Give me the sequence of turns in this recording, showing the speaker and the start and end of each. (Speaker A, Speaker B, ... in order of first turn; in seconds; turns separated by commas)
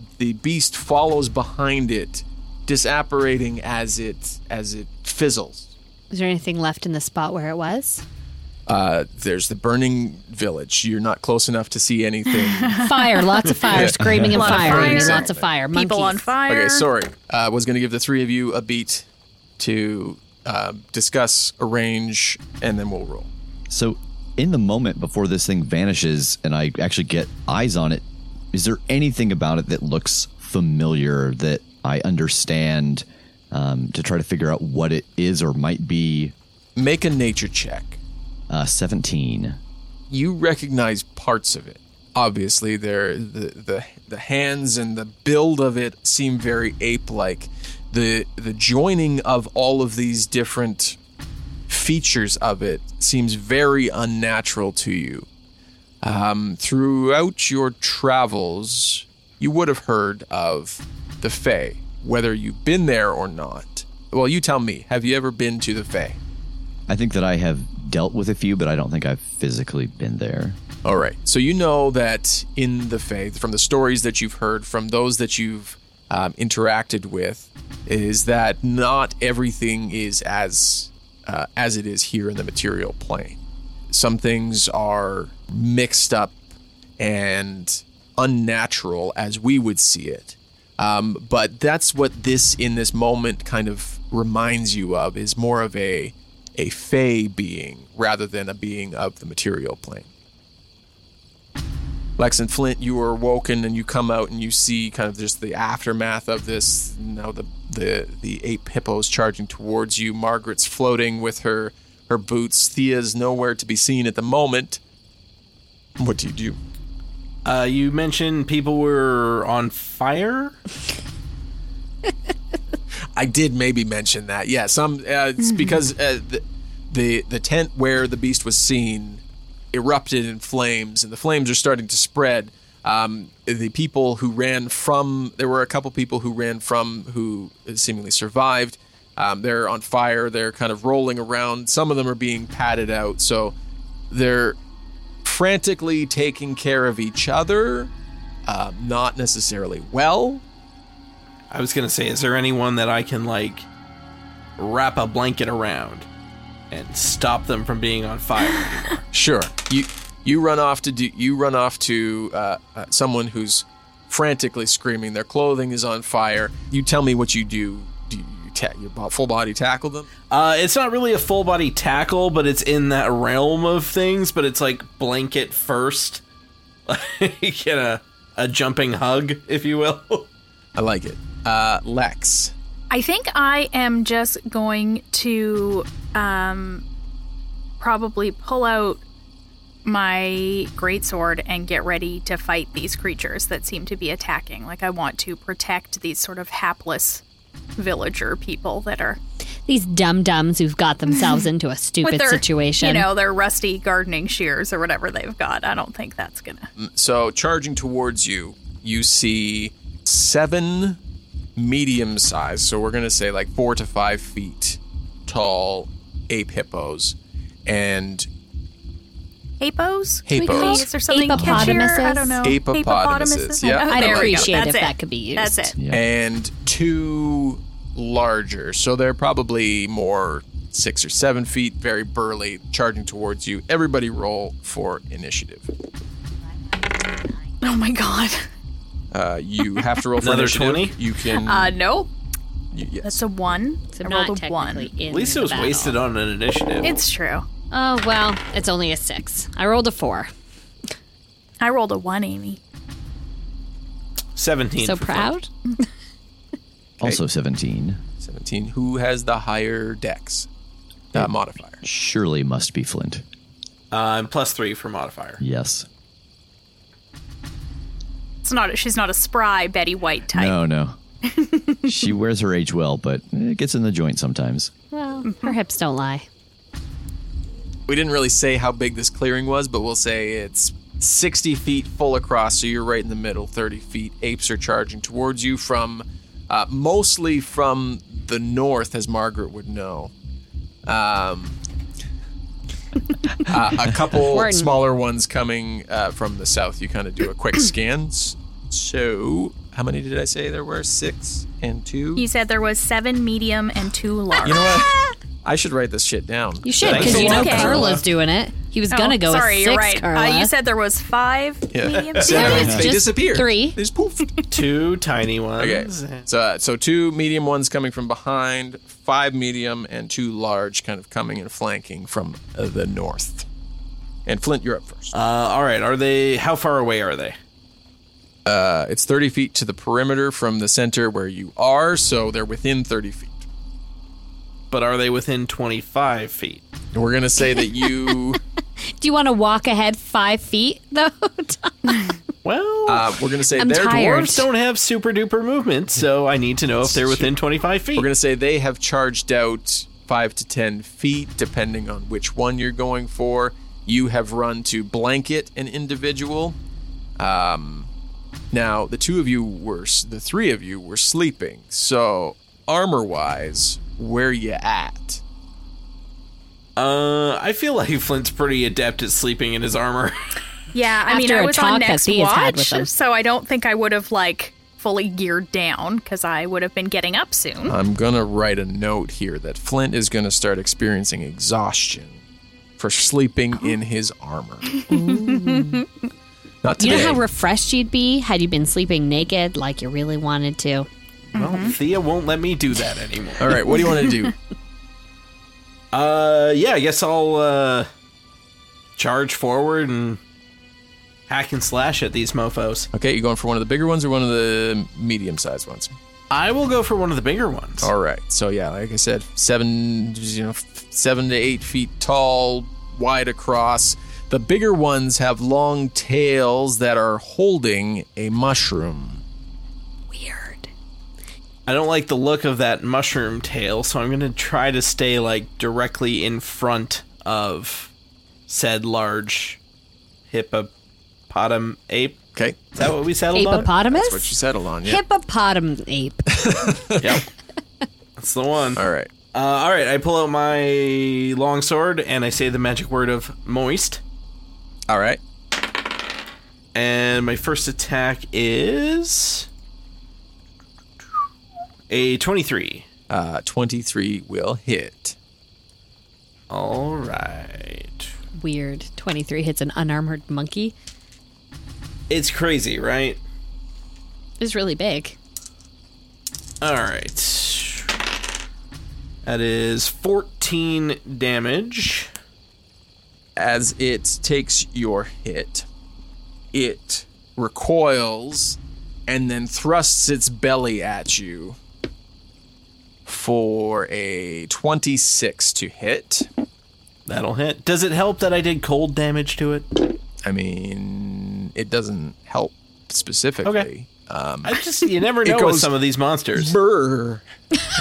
Speaker A: 0.2-5.7, Speaker B: 6.1-8.0, Speaker A: 8.7-12.8, Speaker C: 12.3-13.4, Speaker B: 12.8-16.3, Speaker A: 13.7-15.4, Speaker C: 14.2-16.9, Speaker A: 16.4-19.0, Speaker A: 19.6-23.3, Speaker D: 23.7-36.3, Speaker A: 36.8-38.0, Speaker D: 38.5-39.6, Speaker A: 40.1-51.0, Speaker A: 51.7-55.3, Speaker A: 56.0-66.2, Speaker D: 66.9-70.6, Speaker A: 70.8-83.4, Speaker A: 83.9-86.4, Speaker A: 87.0-100.1, Speaker A: 102.2-114.8, Speaker A: 116.0-116.6, Speaker E: 117.4-120.6, Speaker A: 123.1-129.2, Speaker A: 129.7-143.5, Speaker A: 144.1-144.6, Speaker A: 145.2-147.9, Speaker A: 148.4-150.4, Speaker E: 151.5-153.7, Speaker E: 154.6-156.1, Speaker E: 156.7-159.0, Speaker A: 159.1-170.1, Speaker E: 170.3-176.2, Speaker E: 176.9-180.3, Speaker A: 180.7-182.5, Speaker C: 182.9-186.8, Speaker C: 187.8-189.0, Speaker C: 189.8-197.2, Speaker C: 197.8-199.2, Speaker B: 199.7-203.1, Speaker C: 202.0-206.7, Speaker A: 206.8-211.0, Speaker A: 211.6-218.3, Speaker C: 219.6-225.7, Speaker A: 220.2-220.9, Speaker B: 220.4-222.4, Speaker A: 222.4-224.5, Speaker B: 223.8-225.7, Speaker D: 225.8-226.1, Speaker A: 225.9-235.7, Speaker C: 237.6-238.5, Speaker A: 239.1-241.8, Speaker C: 239.7-240.0, Speaker E: 240.2-241.0, Speaker C: 241.4-242.1, Speaker A: 242.7-243.2, Speaker C: 243.0-244.9, Speaker B: 243.9-246.0, Speaker E: 245.1-247.0, Speaker C: 246.8-247.5, Speaker B: 247.7-250.3, Speaker C: 251.6-252.6, Speaker E: 254.3-255.3, Speaker B: 254.8-255.5, Speaker D: 257.0-258.0, Speaker A: 258.2-260.5, Speaker A: 261.1-261.8, Speaker D: 261.8-263.2, Speaker E: 263.9-265.4, Speaker D: 265.4-265.9, Speaker C: 268.4-270.6, Speaker D: 270.3-271.0, Speaker C: 271.3-271.9, Speaker D: 271.8-274.7, Speaker B: 274.9-276.3, Speaker C: 275.2-275.5, Speaker A: 277.9-290.1, Speaker A: 290.9-291.6, Speaker A: 293.5-302.3, Speaker B: 294.2-294.7, Speaker C: 302.1-304.8, Speaker A: 304.4-304.9, Speaker A: 305.4-307.9, Speaker B: 306.6-310.5, Speaker E: 306.8-308.0, Speaker C: 306.9-307.9, Speaker C: 308.9-312.8, Speaker A: 311.7-314.3, Speaker E: 311.9-312.7, Speaker B: 312.3-313.8, Speaker E: 314.5-316.2, Speaker A: 315.6-323.4, Speaker A: 324.2-325.1, Speaker E: 325.1-327.4, Speaker A: 328.4-333.4, Speaker E: 334.7-336.6, Speaker A: 336.9-338.4, Speaker B: 337.4-338.3, Speaker B: 339.0-342.0, Speaker E: 342.4-343.2, Speaker A: 342.9-344.1, Speaker B: 343.6-344.5, Speaker E: 343.8-348.1, Speaker A: 346.8-347.3, Speaker A: 347.9-356.6, Speaker A: 357.2-357.9, Speaker A: 358.5-365.2, Speaker E: 366.8-370.2, Speaker C: 370.7-377.8, Speaker B: 371.1-372.9, Speaker A: 377.6-382.2, Speaker A: 382.8-384.7, Speaker C: 384.8-385.8, Speaker B: 384.9-385.9, Speaker A: 386.6-387.2, Speaker B: 386.8-390.9, Speaker E: 391.3-393.7, Speaker C: 391.4-391.7, Speaker A: 393.4-394.3, Speaker C: 394.0-394.2, Speaker E: 395.9-397.9, Speaker E: 399.0-400.2, Speaker E: 401.3-402.9, Speaker A: 402.9-405.9, Speaker E: 406.3-407.9, Speaker A: 407.8-419.2, Speaker B: 420.1-420.7, Speaker E: 421.6-427.9, Speaker E: 428.5-429.6, Speaker E: 430.3-430.7, Speaker E: 431.3-432.2, Speaker E: 432.7-433.7, Speaker B: 433.3-434.3, Speaker A: 433.8-435.0, Speaker B: 434.8-436.2, Speaker A: 436.3-437.2, Speaker E: 437.0-437.2, Speaker E: 438.2-444.0, Speaker A: 438.8-439.1, Speaker A: 444.9-445.2, Speaker E: 446.7-449.5, Speaker E: 451.9-452.9, Speaker A: 453.1-455.1, Speaker E: 456.5-458.1, Speaker B: 458.4-460.7, Speaker E: 462.1-463.2, Speaker B: 464.4-465.1, Speaker E: 466.6-467.9, Speaker E: 469.2-472.1, Speaker A: 473.4-475.6, Speaker A: 476.5-481.6, Speaker A: 483.1-486.3, Speaker E: 487.1-489.9, Speaker A: 490.2-494.6, Speaker E: 493.4-493.7, Speaker E: 494.4-496.6, Speaker A: 495.2-495.7, Speaker A: 496.4-497.2